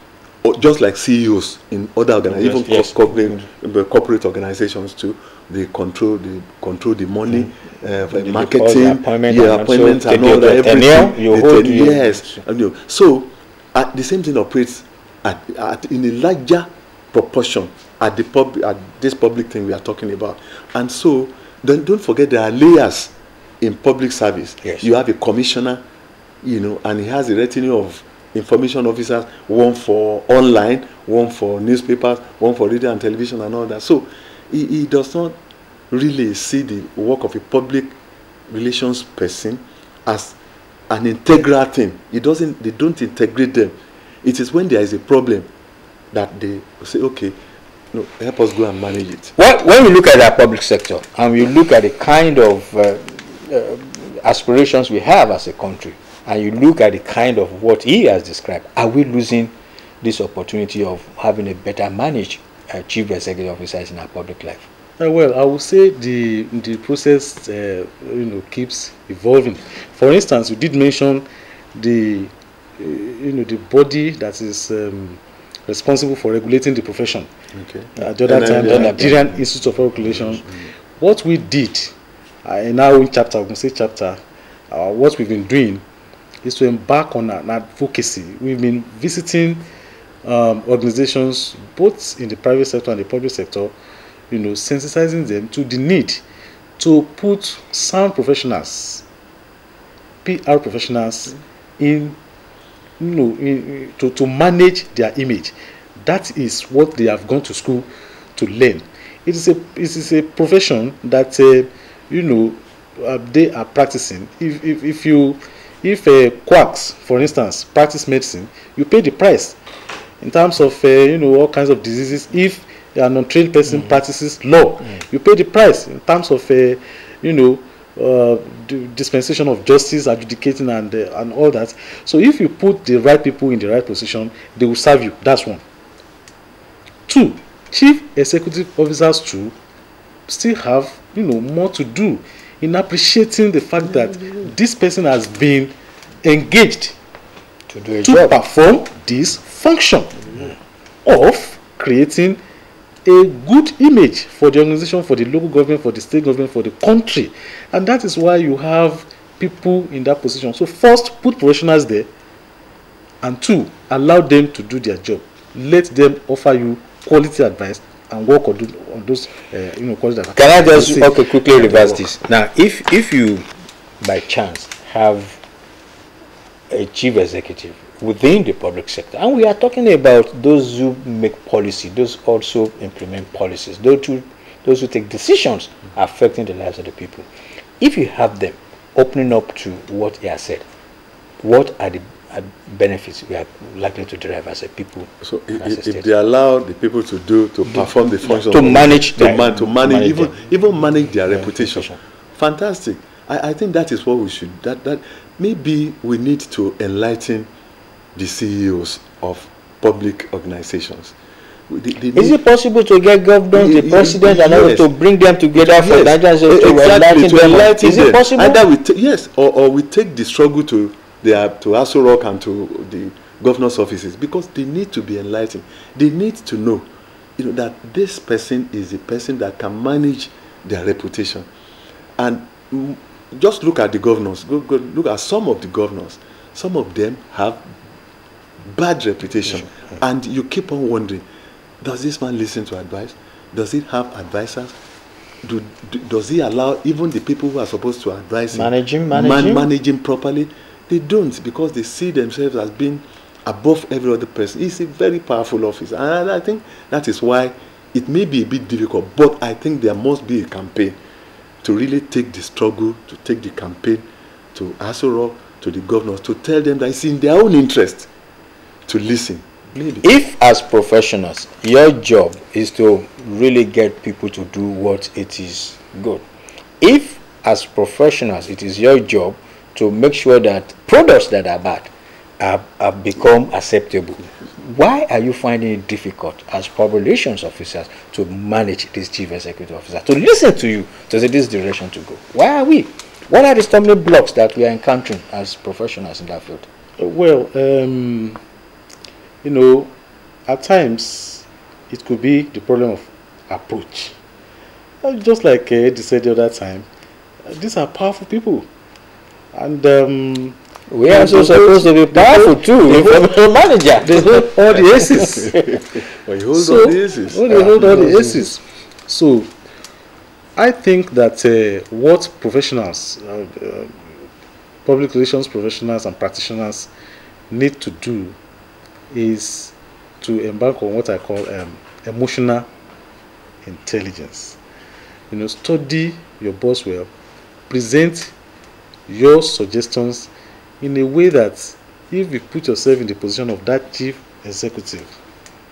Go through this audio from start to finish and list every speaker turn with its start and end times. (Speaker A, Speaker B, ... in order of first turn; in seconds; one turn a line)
Speaker A: 0.4-25.8
Speaker B: 2.3-3.4
Speaker B: 8.2-12.4
Speaker A: 26.4-35.4
Speaker A: 35.9-38.0
Speaker A: 38.5-40.4
Speaker A: 40.9-45.5
Speaker A: 46.1-47.4
Speaker A: 47.9-49.3
Speaker B: 49.4-64.6
Speaker C: 65.0-77.3
Speaker A: 77.5-79.4
Speaker C: 78.0-81.9
Speaker B: 78.2-79.3
Speaker A: 80.1-80.6
Speaker C: 82.4-84.2
Speaker C: 84.7-85.8
Speaker C: 86.4-89.6
Speaker C: 90.2-93.7
Speaker C: 94.3-96.2
Speaker C: 96.8-99.0
Speaker C: 100.2-102.2
Speaker C: 103.0-119.6
Speaker C: 120.2-135.6
Speaker C: 137.1-139.5
Speaker C: 140.3-146.9
Speaker B: 147.7-148.3
Speaker C: 148.0-150.4
Speaker C: 151.0-152.4
Speaker C: 153.0-162.1
Speaker C: 163.2-172.0
Speaker B: 170.3-173.4
Speaker B: 174.0-175.4
Speaker B: 176.7-187.2
Speaker B: 187.8-190.6
Speaker B: 191.4-196.1
Speaker A: 195.2-207.5
Speaker B: 197.7-200.4
Speaker B: 201.3-202.0
Speaker A: 208.1-211.2
Speaker A: 211.7-212.4
Speaker B: 212.1-218.6
Speaker A: 213.5-214.9
Speaker A: 215.5-231.5
Speaker A: 232.2-237.7
Speaker A: 238.7-241.2
Speaker A: 241.8-244.7
Speaker A: 245.4-261.0
Speaker B: 248.5-249.7
Speaker A: 261.6-268.1
Speaker A: 268.9-270.1
Speaker B: 270.0-276.2
Speaker B: 276.8-296.7
Speaker C: 297.0-298.4
Speaker C: 299.4-299.9
Speaker C: 300.5-304.1
Speaker C: 305.0-306.9
Speaker C: 307.5-308.7
Speaker C: 309.5-313.4
Speaker B: 310.9-315.8
Speaker C: 314.0-315.4
Speaker A: 314.6-318.2
Speaker C: 316.5-319.5
Speaker B: 317.5-318.5
Speaker C: 320.6-324.1
Speaker C: 324.9-326.9
Speaker C: 327.5-328.4
Speaker C: 329.1-332.7
Speaker C: 333.6-334.6
Speaker C: 335.3-337.1
Speaker C: 337.7-338.3
Speaker C: 339.1-345.1